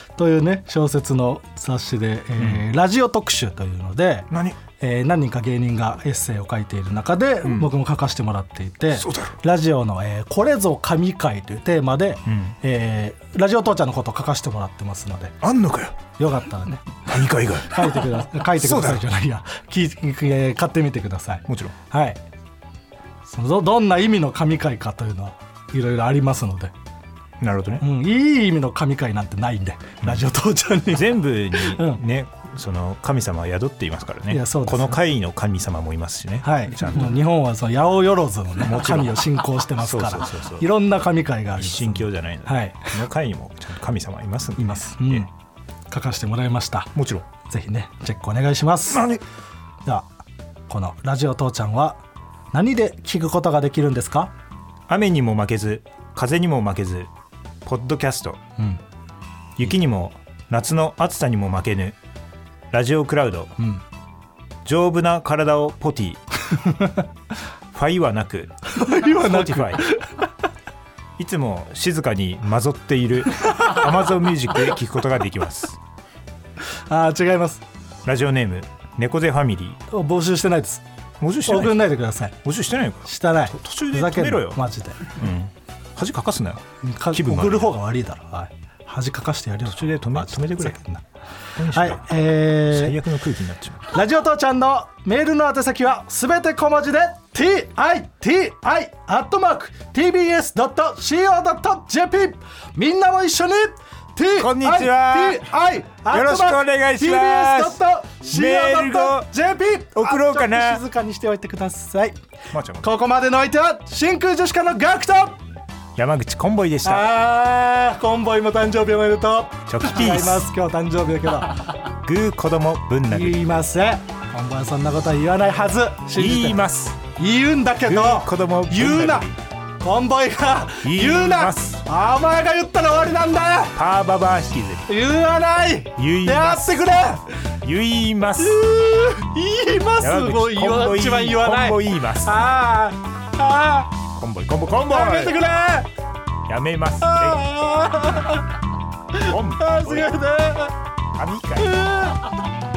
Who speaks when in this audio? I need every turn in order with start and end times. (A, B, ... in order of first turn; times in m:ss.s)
0:00.2-0:15.4 A
0:02.4-0:02.6 B
0:04.3-0:04.6 B
0:07.4-0:07.7 B
0:08.9-0:09.4 B
0:12.2-0:12.6 B
0:15.4-0:16.0 B
0:16.2-0:17.0 A
0:17.0-0:19.0 B
0:17.6-0:22.2 A
0:21.5-0:21.7 B
0:23.2-0:26.7 A
0:27.4-0:27.8 B
0:27.8-0:32.0 A
0:30.9-0:37.2 B
0:34.3-0:35.0 A
0:36.4-0:42.9 A
0:38.6-0:40.6 B
0:41.6-0:45.3 B
0:44.6-0:45.3 A
0:45.9-0:49.1 A
0:46.9-0:47.3 B
0:48.9-0:49.2 B
0:50.7-0:52.0 A
0:52.5-0:54.3 A
0:54.9-0:57.1 B
0:57.6-0:58.4 B
0:59.6-1:02.0 B
1:02.7-1:03.5 B
1:04.6-1:06.2 B
1:06.5-1:07.0 A
1:07.7-1:09.8 B
1:08.7-1:10.2 A
1:11.2-1:15.8 B
1:16.9-1:17.6 A
1:18.0-1:19.8 B
1:19.9-1:20.8 A
1:21.2-1:21.8 B
1:21.4-1:22.4 A
1:22.4-1:27.8 B
1:23.0-1:25.1 A
1:26.8-1:31.0 A
1:29.6-1:30.8 B
1:31.5-1:33.8 B
1:31.7-1:33.0 A
1:33.9-1:52.2 A
1:44.4-1:45.5 B
1:46.1-1:49.3 B
1:49.9-1:50.8 B
1:52.5-1:52.9 B
1:52.8-1:55.4 A
1:56.0-1:57.1 B
1:56.8-2:01.6 A
1:59.7-2:00.5 B
2:02.0-2:03.5 B
2:03.1-2:09.3 A
2:06.1-2:07.0 B
2:07.8-2:09.4 B
2:09.8-2:13.8 A
2:10.8-2:11.8 B
2:13.8-2:14.9 B
2:14.9-2:17.3 A
2:16.0-2:16.9 B
2:17.6-2:18.6 B
2:18.4-2:23.9 A
2:20.0-2:22.4 B
2:24.1-2:25.4 B
2:24.9-2:25.9 A
2:26.5-2:27.4 B
2:27.0-2:28.5 A
2:29.1-2:30.7 A
2:29.2-2:30.1 B
2:31.1-2:31.9 B
2:31.6-2:32.3 A